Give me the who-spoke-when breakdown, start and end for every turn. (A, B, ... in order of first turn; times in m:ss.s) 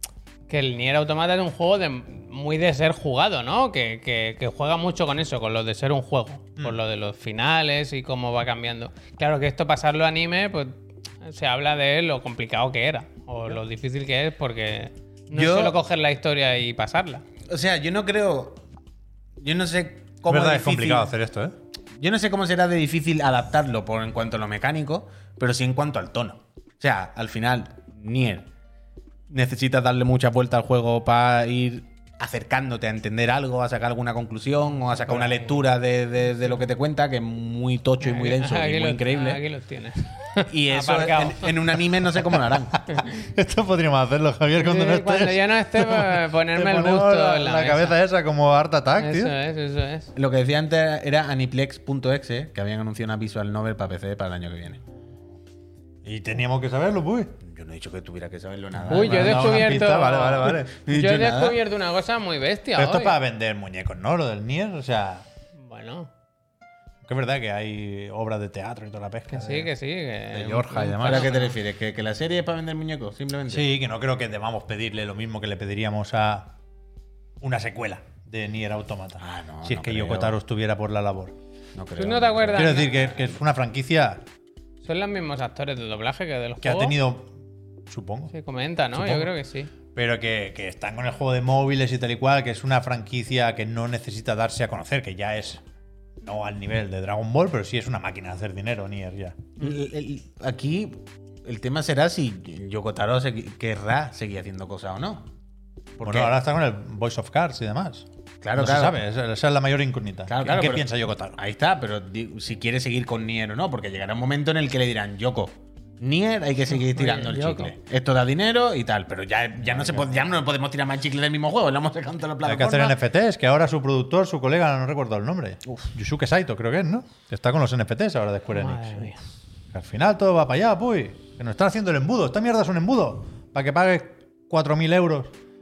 0:00.5-0:17.2 A
0:15.3-0:15.8 B
0:17.5-0:18.6 B
0:19.4-0:21.1 B
0:20.3-0:21.5 C
0:22.0-0:28.5 B
0:29.3-0:39.4 B
0:35.1-0:35.5 A
0:38.0-0:41.6 A
0:40.4-0:42.8 B
0:43.0-0:49.3 C
0:44.6-0:47.9 A
0:49.0-0:50.1 A
0:50.1-0:54.8 B
0:56.0-0:57.4 C
0:57.4-0:59.8 B
0:58.7-1:00.7 C
0:58.9-1:03.2 A
1:00.5-1:01.6 B
1:02.7-1:05.3 C
1:05.6-1:06.1 A
1:07.0-1:09.7 C
1:09.3-1:11.5 A
1:10.3-1:11.3 C
1:11.0-1:13.7 B
1:13.5-1:16.5 C
1:17.4-1:21.4 C
1:19.2-1:20.3 B
1:21.7-1:23.3 B
1:22.0-1:23.1 A
1:22.5-1:24.2 C
1:24.8-1:27.0 A
1:26.6-1:27.3 C
1:27.9-1:28.3 C
1:28.3-1:29.7 A
1:28.9-1:29.3 C
1:29.9-1:35.6 C
1:36.2-1:39.4 C
1:39.6-1:45.3 B
1:46.0-1:46.3 B
1:46.0-1:51.4 C
1:48.4-1:49.0 B
1:50.3-2:03.0 B
1:56.7-1:57.7 A
1:59.6-2:00.2 C
2:02.4-2:09.1 C
2:08.5-2:09.2 A
2:09.7-2:15.3 C